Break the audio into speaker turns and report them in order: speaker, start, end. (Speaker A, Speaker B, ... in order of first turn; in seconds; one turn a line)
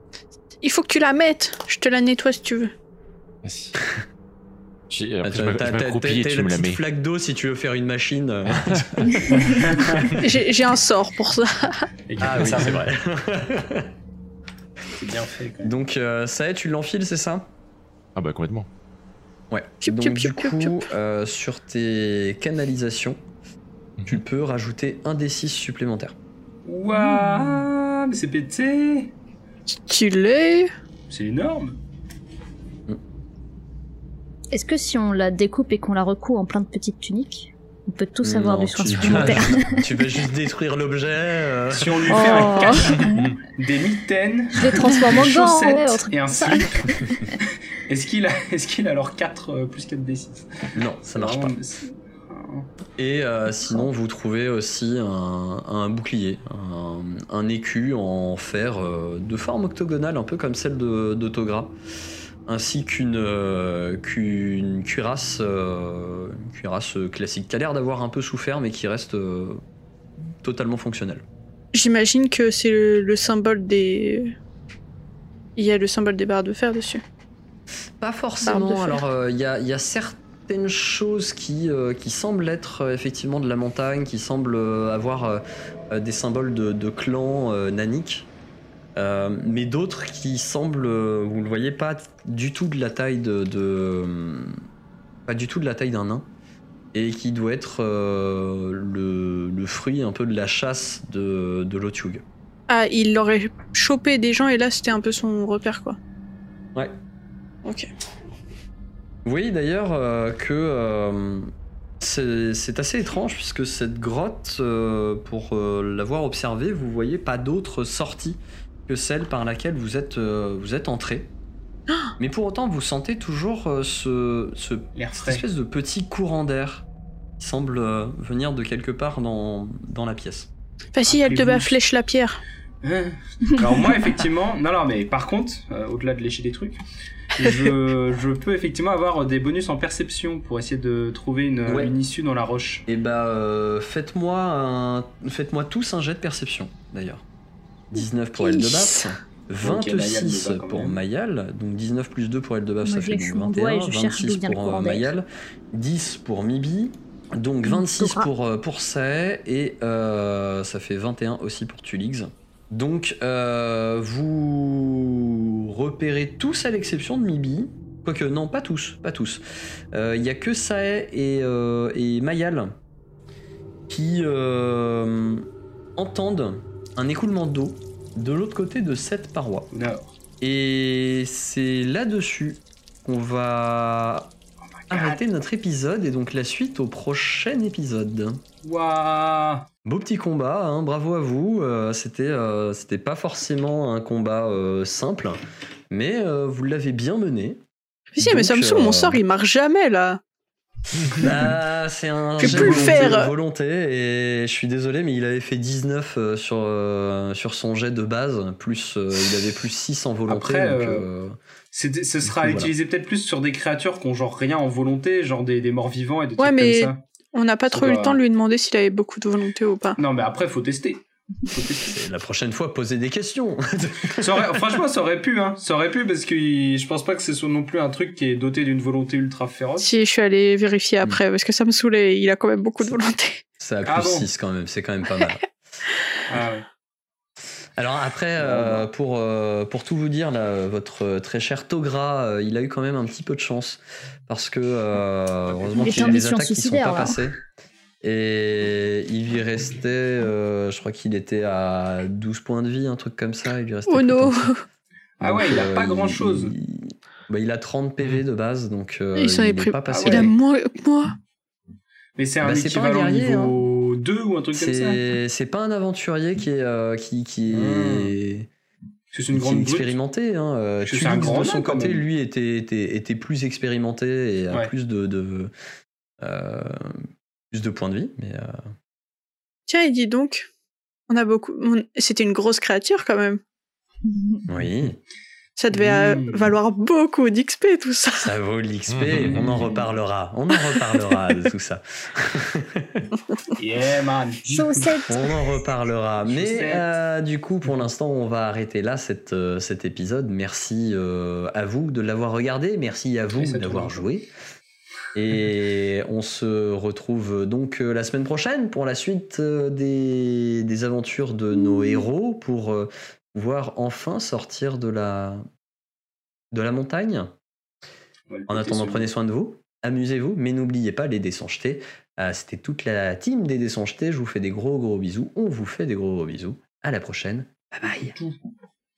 Speaker A: 0.6-2.7
Speaker B: 3.4-3.8
Speaker B: 4.9-6.8
Speaker C: 5.2-10.1
Speaker B: 8.5-9.5
Speaker D: 9.4-10.0
Speaker A: 10.2-11.9
Speaker D: 12.1-12.8
Speaker C: 12.2-13.9
Speaker B: 12.2-12.8
Speaker D: 14.9-15.7
Speaker C: 15.6-17.5
Speaker B: 18.1-18.7
Speaker C: 19.5-23.2
Speaker A: 19.8-20.9
Speaker C: 24.1-26.1
Speaker D: 26.6-29.1
Speaker A: 29.7-30.7
Speaker D: 31.1-31.8
Speaker E: 34.5-39.8
Speaker C: 38.2-42.3
Speaker B: 38.9-39.4
Speaker D: 41.7-46.9
Speaker E: 42.1-43.3
Speaker B: 43.1-43.3
Speaker E: 44.5-47.3
Speaker D: 47.9-50.4
Speaker C: 50.7-51.5
Speaker D: 51.0-52.7
Speaker C: 53.0-61.7
Speaker C: 62.5-69.6
Speaker C: 70.4-71.2
Speaker A: 71.7-74.3
Speaker A: 75.5-77.0
Speaker C: 78.0-88.3
Speaker A: 78.4-79.0
Speaker C: 89.0-94.6
Speaker C: 95.3-96.3
Speaker C: 96.9-102.2
Speaker A: 102.7-106.0
Speaker C: 109.2-121.3
Speaker C: 122.2-126.8
Speaker D: 124.9-125.4
Speaker C: 127.4-130.5
Speaker A: 130.9-132.4
Speaker D: 131.1-131.8
Speaker D: 132.8-136.8
Speaker D: 137.3-142.8
Speaker C: 141.7-141.9
Speaker C: 142.9-147.2
Speaker C: 147.9-169.4
Speaker E: 148.5-149.0
Speaker D: 149.6-151.0
Speaker E: 152.8-155.1
Speaker E: 157.7-158.3
Speaker C: 169.9-172.7
Speaker C: 173.9-179.7
Speaker D: 179.7-180.1
Speaker C: 180.4-184.3
Speaker D: 184.9-185.2
Speaker C: 184.9-188.4
Speaker D: 188.6-189.7
Speaker C: 189.8-195.4
Speaker C: 195.9-197.6
Speaker A: 198.1-200.2
Speaker C: 198.2-199.2
Speaker C: 201.2-211.4
Speaker A: 202.4-203.3
Speaker D: 202.4-203.1
Speaker D: 210.3-211.1
Speaker D: 211.7-217.0
Speaker C: 212.2-212.7
Speaker A: 216.4-220.0
Speaker D: 217.7-218.2
Speaker D: 220.0-222.0
Speaker C: 221.8-224.6
Speaker D: 224.2-229.9
Speaker A: 229.8-233.4
Speaker C: 233.6-235.5
Speaker D: 233.8-234.3
Speaker D: 236.3-236.7
Speaker C: 237.8-247.4
Speaker D: 238.4-238.9
Speaker D: 245.7-246.2
Speaker E: 245.8-247.2
Speaker C: 248.0-254.5
Speaker A: 253.9-254.6
Speaker D: 255.2-256.5
Speaker C: 255.2-260.3
Speaker A: 259.1-261.1
Speaker D: 259.9-260.3
Speaker D: 262.2-265.1
Speaker C: 262.4-263.6
Speaker C: 264.5-268.5
Speaker D: 267.5-268.1
Speaker D: 269.1-270.0
Speaker C: 269.3-275.5
Speaker D: 270.8-272.0
Speaker C: 276.2-278.6
Speaker A: 279.7-280.5
Speaker A: 281.1-283.4
Speaker C: 284.5-285.0
Speaker A: 285.6-288.3
Speaker D: 285.7-286.5
Speaker C: 288.2-293.1
Speaker B: 288.9-289.6
Speaker D: 289.3-289.6
Speaker D: 293.6-294.9
Speaker E: 294.5-295.4
Speaker C: 295.1-304.3
Speaker D: 296.2-296.9
Speaker D: 303.3-304.0
Speaker C: 305.1-315.4
Speaker C: 316.5-317.3
Speaker D: 318.3-319.1
Speaker C: 318.5-328.1